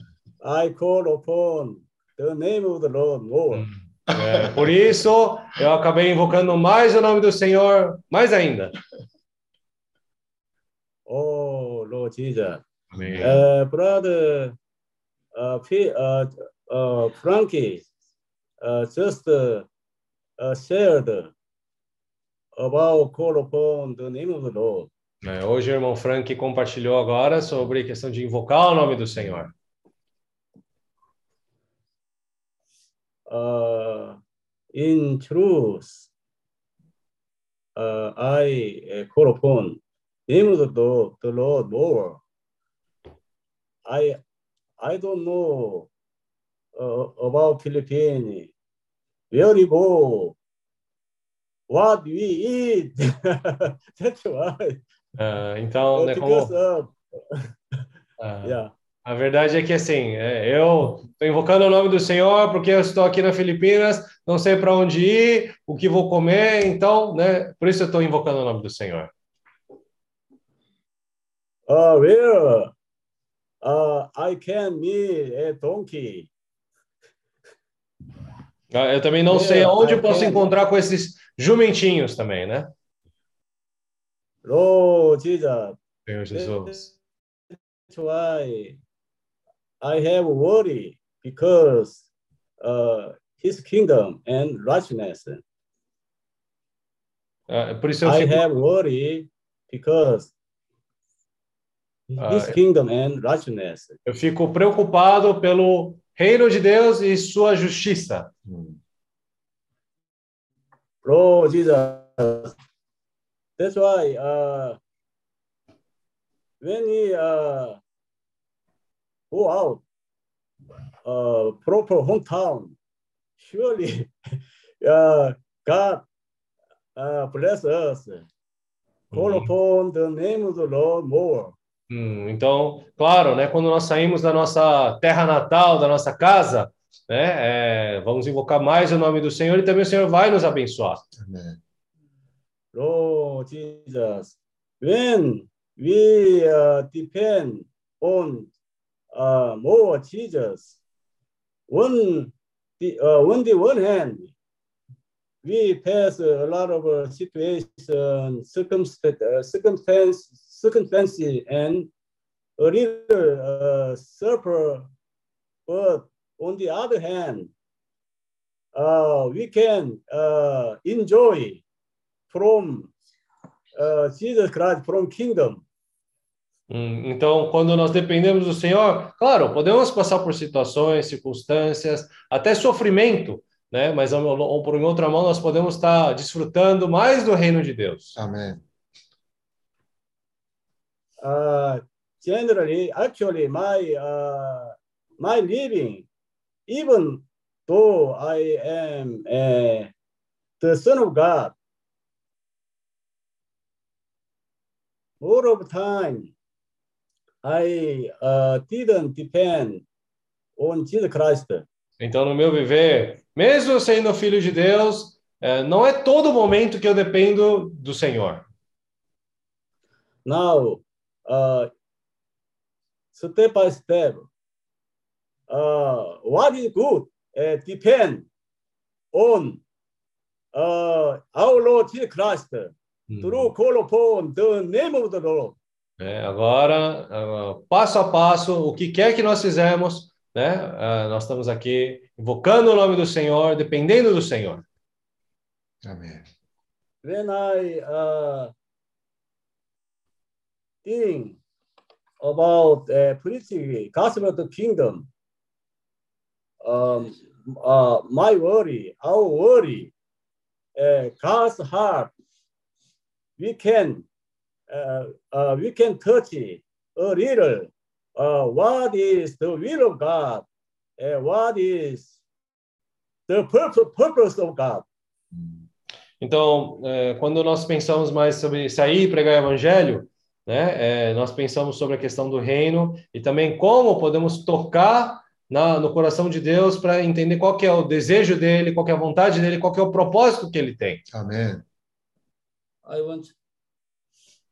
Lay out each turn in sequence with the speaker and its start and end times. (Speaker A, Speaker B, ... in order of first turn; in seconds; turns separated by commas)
Speaker A: 0.4-3.7, Speaker B: 3.5-8.7, Speaker C: 4.1-4.7, Speaker A: 11.1-12.6, Speaker B: 12.9-13.4, Speaker C: 12.9-13.4, Speaker A: 13.2-14.6, Speaker A: 15.3-17.8, Speaker A: 18.6-19.7, Speaker A: 20.4-21.3, Speaker A: 22.6-24.9, Speaker B: 25.2-29.5, Speaker A: 33.3-34.2, Speaker A: 34.7-36.1, Speaker A: 37.8-42.2, Speaker A: 43.9-44.2, Speaker A: 44.8-45.9, Speaker A: 46.8-48.5, Speaker A: 49.3-50.4, Speaker A: 51.7-54.8, Speaker B: 55.2-56.5, Speaker A: 55.9-57.5, Speaker B: 58.2-69.1, Speaker A: 58.4-58.7, Speaker A: 71.7-72.7, Speaker A: 73.6-76.3, Speaker B: 78.7-82.7, Speaker A: 79.3-80.5, Speaker A: 84.4-85.8, Speaker B: 86.1-86.9, Speaker A: 86.3-86.8, Speaker A: 87.9-88.8, Speaker A: 89.8-92.0, Speaker A: 92.6-95.4, Speaker B: 97.5-98.4, Speaker A: 98.0-100.3, Speaker A: 102.1-104.0, Speaker B: 102.2-102.6, Speaker B: 104.0-108.3, Speaker C: 108.5-108.8, Speaker A: 111.0-112.5, Speaker A: 113.6-114.8, Speaker A: 116.6-117.8, Speaker A: 119.3-119.8, Speaker A: 121.0-122.7, Speaker A: 123.4-124.1, Speaker A: 124.8-126.0, Speaker A: 127.0-128.2, Speaker B: 129.1-129.5, Speaker A: 129.1-131.5, Speaker B: 131.9-141.0, Speaker C: 141.2-141.6, Speaker A: 142.7-148.5, Speaker A: 149.1-150.7, Speaker A: 151.7-154.3, Speaker A: 155.4-161.9, Speaker A: 162.6-164.9, Speaker A: 165.7-167.5, Speaker A: 168.7-171.6, Speaker A: 172.3-172.9, Speaker A: 173.7-175.6, Speaker B: 176.7-188.2, Speaker C: 188.2-188.6, Speaker A: 191.2-196.1, Speaker A: 196.7-199.9, Speaker A: 200.6-201.5, Speaker A: 205.2-206.3, Speaker A: 207.4-209.8, Speaker A: 210.6-211.6, Speaker B: 212.0-218.4, Speaker A: 220.2-221.7, Speaker A: 223.1-224.3, Speaker A: 225.5-228.3, Speaker A: 229.1-229.6, Speaker A: 230.5-235.6, Speaker B: 233.1-233.5, Speaker B: 236.0-244.6, Speaker C: 245.8-246.3, Speaker A: 247.0-248.5, Speaker A: 250.8-251.4, Speaker A: 252.2-255.1, Speaker A: 256.6-259.9, Speaker A: 260.8-262.1, Speaker A: 263.4-264.1, Speaker A: 264.7-270.4, Speaker A: 271.0-272.1, Speaker A: 273.3-274.8, Speaker B: 276.2-291.0, Speaker C: 291.1-291.6, Speaker A: 292.9-293.3